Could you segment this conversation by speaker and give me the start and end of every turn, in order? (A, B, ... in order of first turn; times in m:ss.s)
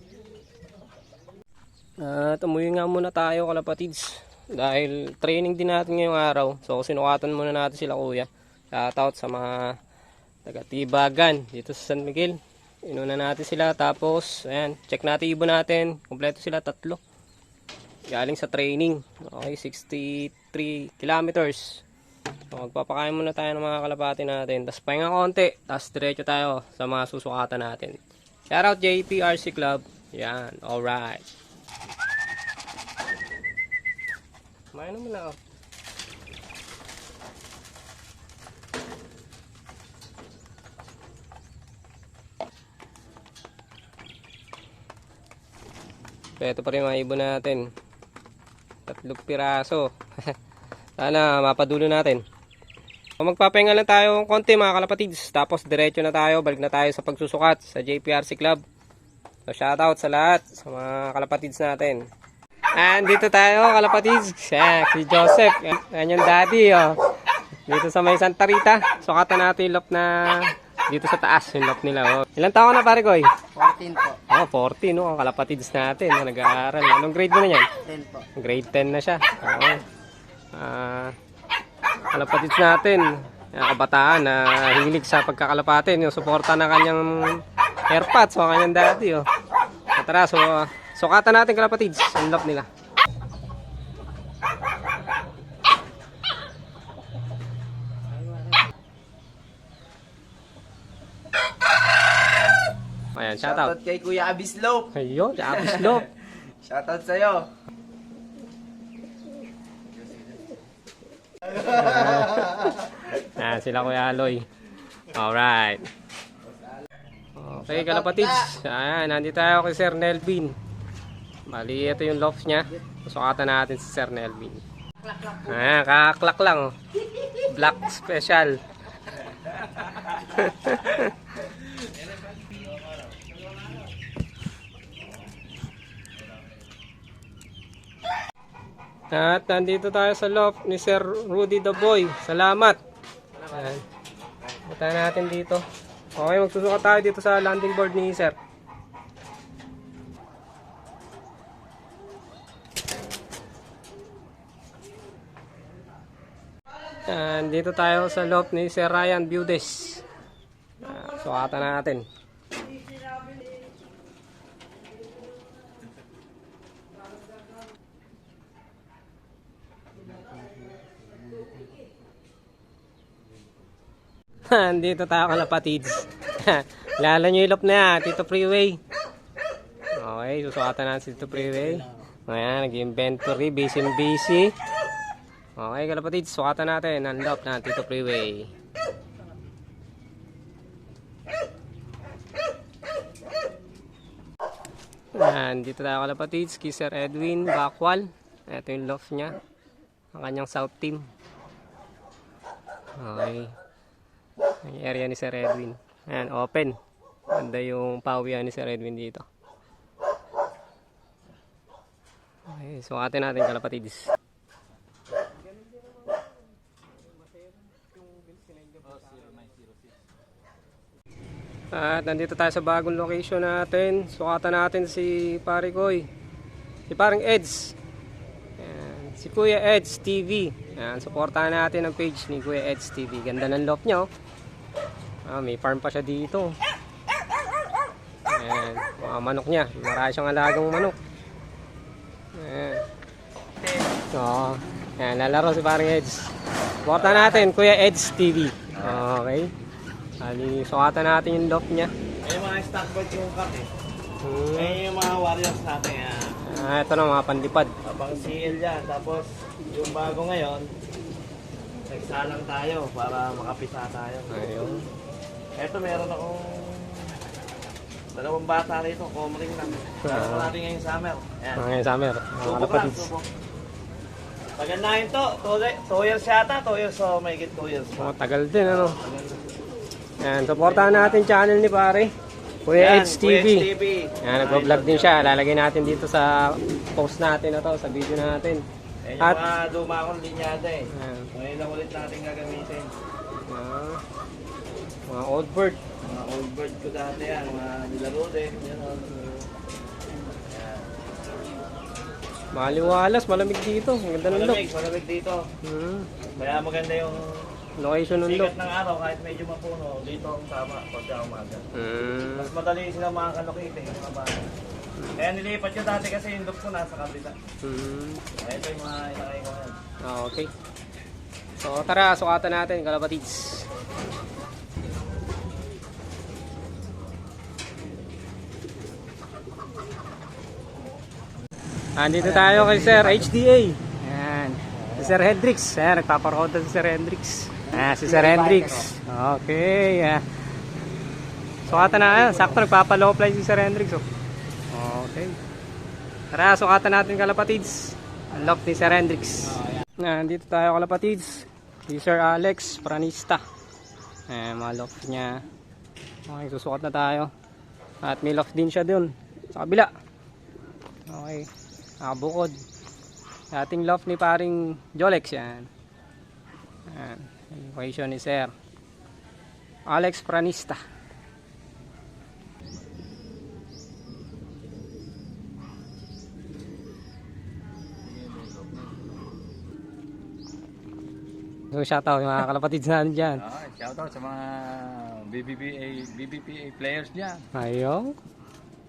0:02.0-0:09.8 A
0:10.4-0:17.0 A
0:18.1-0:21.8 A
0:22.5-0:28.0 A
0:28.5-0:31.3 A
0:34.7-0:35.4 A
0:46.4-0:47.6 A
0:48.9-0:50.3 A
0:51.0-0:52.2 A
0:53.2-0:58.6 A
0:59.5-1:02.0 A
1:02.7-1:07.0 A
1:07.7-1:13.3 A
1:13.6-1:14.2 B
1:14.3-1:17.7 A
1:17.8-1:18.2 B
1:18.4-1:19.8 A
1:20.5-1:21.1 A
1:22.1-1:29.2 A
1:30.0-1:32.7 A
1:43.2-1:43.7 A
1:43.4-1:44.9 B
1:44.9-1:46.1 A
1:45.5-1:47.5 B
1:51.6-1:54.4 A
1:55.1-1:55.8 A
1:57.4-2:00.6 A
2:01.5-2:04.6 A
2:05.2-2:06.7 A
2:07.4-2:08.6 A
2:10.1-2:11.1 A
2:19.1-2:22.8 A
2:23.5-2:23.8 A
2:24.7-2:25.6 A
2:26.2-2:28.4 A
2:37.1-2:40.0 A
2:40.8-2:42.0 A
2:54.5-2:58.8 A
3:00.0-3:04.5 A
3:05.6-3:08.5 A
3:15.2-3:19.4 A
3:20.1-3:21.1 A
3:23.0-3:23.5 A
3:24.6-3:26.8 A
3:27.3-3:29.2 A
3:32.5-3:34.1 A
3:39.0-3:39.7 C
3:41.7-3:46.1 A
3:46.9-3:47.8 A
3:48.6-3:54.1 A
3:55.2-3:56.5 A
3:58.3-4:01.0 A
4:02.3-4:02.8 A
4:04.1-4:06.3 A
4:06.8-4:09.5 A
4:06.9-4:07.5 D
4:08.8-4:09.0 D
4:10.2-4:11.9 A
4:12.2-4:13.7 D
4:14.2-4:14.8 A
4:14.6-4:16.3 D
4:16.4-4:17.7 A
4:17.8-4:20.7 D
4:21.9-4:24.4 D
4:24.3-4:24.8 A
4:25.6-4:27.2 D
4:28.1-4:31.7 D
4:30.0-4:30.5 A
4:31.6-4:33.1 A
4:32.4-4:33.3 D
4:34.6-4:38.1 D
4:38.0-4:39.0 A
4:38.6-4:39.4 D
4:40.2-4:42.1 A
4:40.6-4:41.2 D
4:42.6-4:43.7 A
4:42.7-4:45.3 D
4:44.2-4:48.6 A
4:49.0-4:52.9 D
4:50.9-4:51.3 A
4:53.5-4:54.0 A
4:55.1-4:55.8 A
4:56.0-4:59.4 D
5:00.5-5:00.9 D
5:02.5-5:04.6 A
5:04.2-5:05.4 D
5:05.6-5:06.1 A
5:06.4-5:07.5 D
5:07.8-5:08.5 A
5:08.2-5:11.6 D
5:11.7-5:12.5 A
5:12.4-5:14.5 D
5:15.2-5:17.3 D
5:17.6-5:18.2 A
5:18.4-5:19.8 D
5:20.0-5:20.5 A
5:21.6-5:23.7 A
5:32.0-5:40.2 A
5:32.4-5:33.1 B
5:37.9-5:38.8 B
5:41.6-5:44.0 A
5:41.8-5:42.4 B
5:44.7-5:45.4 A
5:46.3-5:53.4 A
5:54.3-5:55.4 A
5:56.3-5:57.3 A
5:58.0-5:59.9 A
6:01.1-6:01.5 A
6:02.0-6:02.5 A
6:03.5-6:05.7 A
6:06.9-6:08.5 A
6:09.9-6:10.8 A
6:18.0-6:19.1 C
6:21.7-6:23.4 A
6:23.4-6:27.4 C
6:27.5-6:28.1 A